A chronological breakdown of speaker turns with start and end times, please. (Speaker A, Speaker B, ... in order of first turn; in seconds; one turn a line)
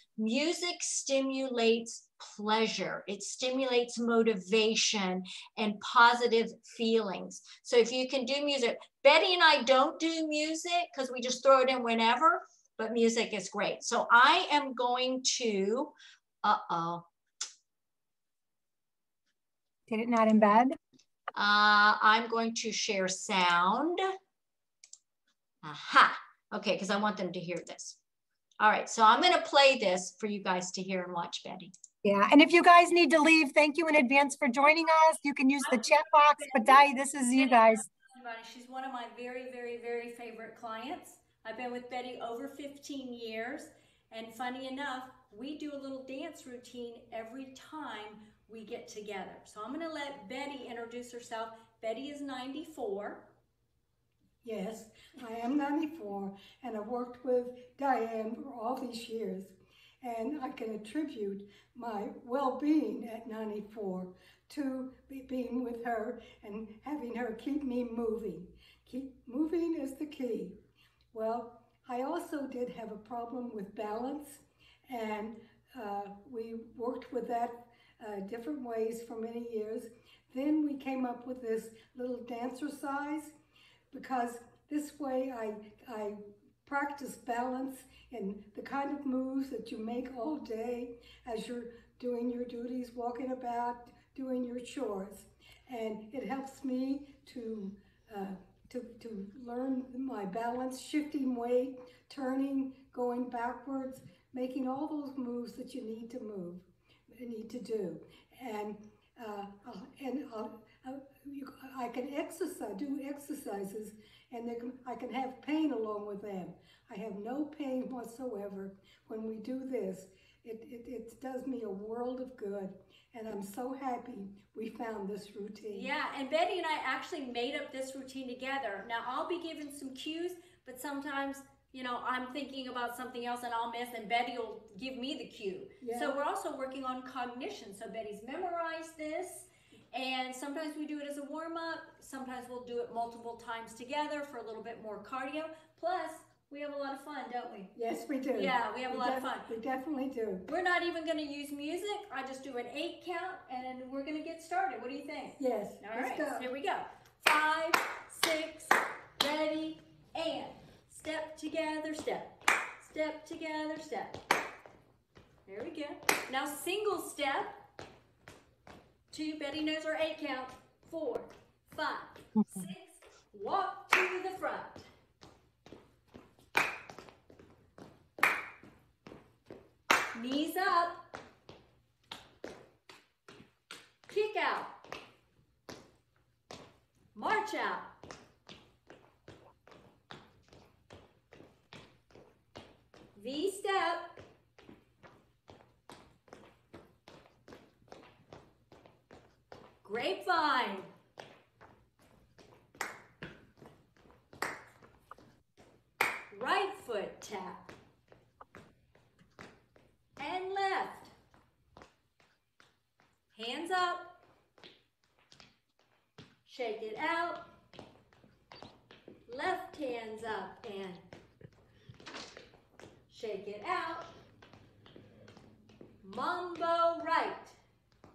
Speaker A: 0.2-17.1
Speaker B: 19.9-20.8
Speaker A: 21.4-24.0
Speaker A: 25.6-28.0
Speaker A: 28.6-31.7
Speaker B: 32.0-37.9
Speaker A: 35.6-36.8
Speaker A: 37.4-53.3
Speaker C: 54.4-70.6
Speaker C: 71.1-83.3
Speaker C: 83.9-125.9
Speaker A: 125.7-147.7
Speaker C: 135.8-136.2
Speaker C: 147.8-150.5
Speaker A: 148.3-149.5
Speaker A: 150.5-164.2
Speaker C: 155.4-156.5
Speaker A: 165.5-167.6
Speaker A: 169.1-174.9
Speaker A: 180.1-181.0
Speaker A: 184.1-184.7
Speaker A: 187.2-187.9
Speaker A: 193.2-194.2
Speaker A: 199.8-200.9
Speaker A: 206.3-207.7
Speaker A: 210.2-211.1
Speaker A: 213.3-214.2
Speaker A: 216.5-217.5
Speaker A: 219.3-221.1
Speaker A: 223.1-224.1
Speaker A: 226.0-227.6